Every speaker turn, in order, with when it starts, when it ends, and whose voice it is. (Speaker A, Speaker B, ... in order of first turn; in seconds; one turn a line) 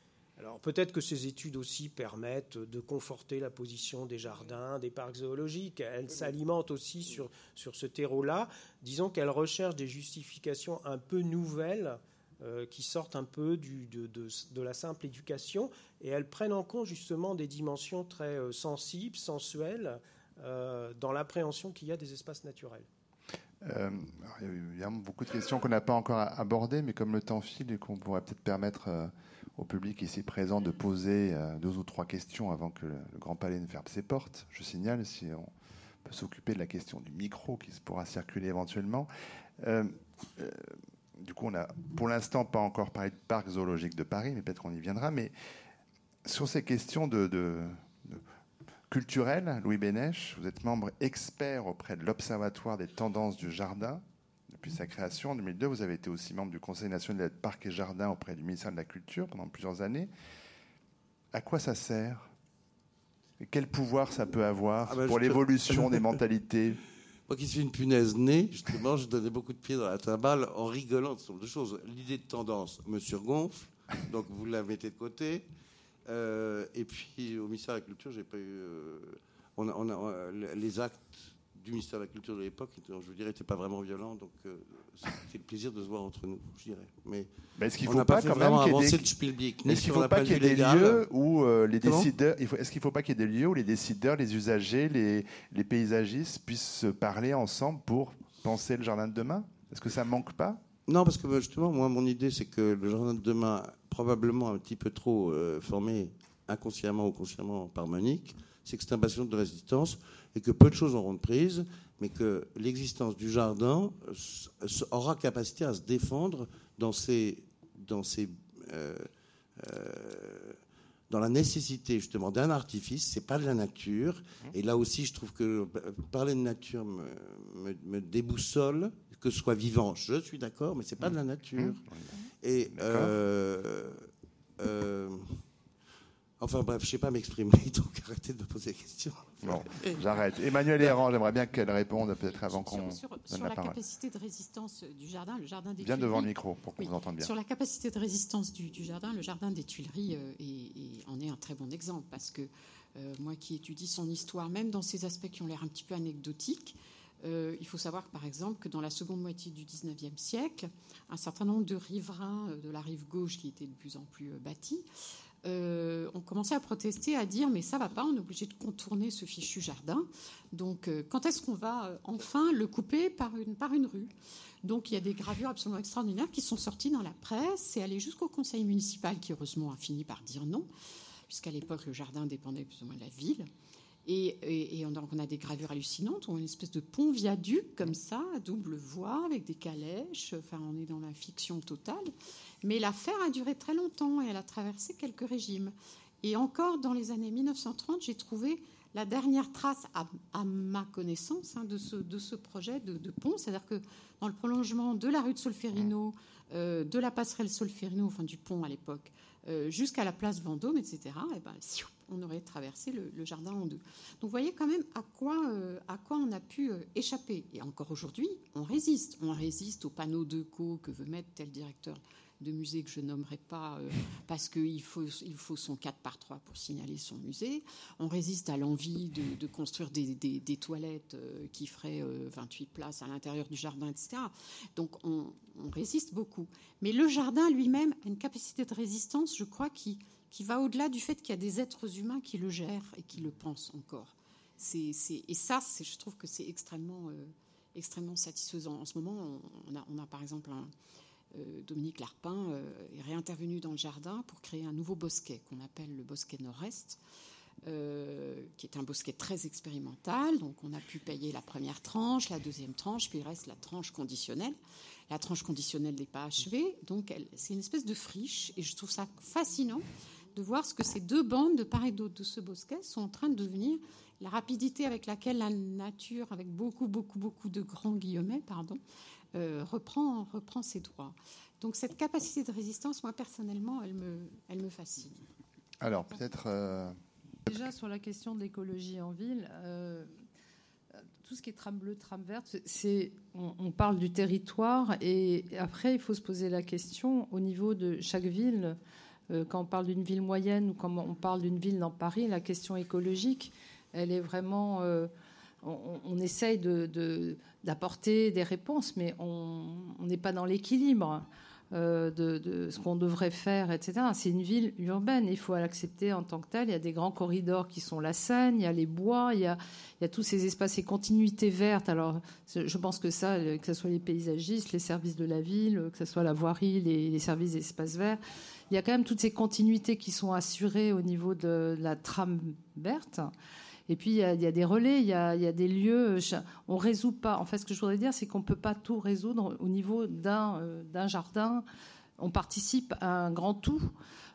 Speaker A: 0.4-22.9
Speaker B: 23.6-35.5
Speaker B: 36.0-39.1
Speaker B: 39.6-45.3
Speaker B: 46.2-48.2
Speaker B: 48.9-60.1
Speaker B: 61.3-62.3
Speaker B: 63.4-66.8
Speaker C: 64.8-66.1
Speaker C: 67.3-75.5
Speaker C: 76.0-87.3
Speaker B: 87.6-89.1
Speaker C: 87.8-91.0
Speaker B: 89.6-100.6
Speaker C: 91.8-92.1
Speaker C: 100.9-120.6
Speaker C: 121.1-131.8
Speaker C: 132.4-134.1
Speaker B: 132.7-133.1
Speaker C: 134.6-135.4
Speaker C: 136.4-140.0
Speaker B: 139.4-143.8
Speaker D: 142.2-164.8
Speaker B: 145.8-147.3
Speaker D: 165.4-180.7
Speaker D: 181.3-183.5
Speaker D: 184.0-250.7
Speaker D: 251.3-257.0
Speaker D: 257.6-264.6
Speaker D: 265.1-278.8
Speaker D: 279.3-285.2
Speaker B: 285.8-287.0
Speaker E: 287.5-290.1
Speaker E: 291.2-298.8
Speaker E: 299.3-305.1
Speaker E: 305.6-333.3
Speaker E: 333.9-341.6
Speaker E: 342.2-343.9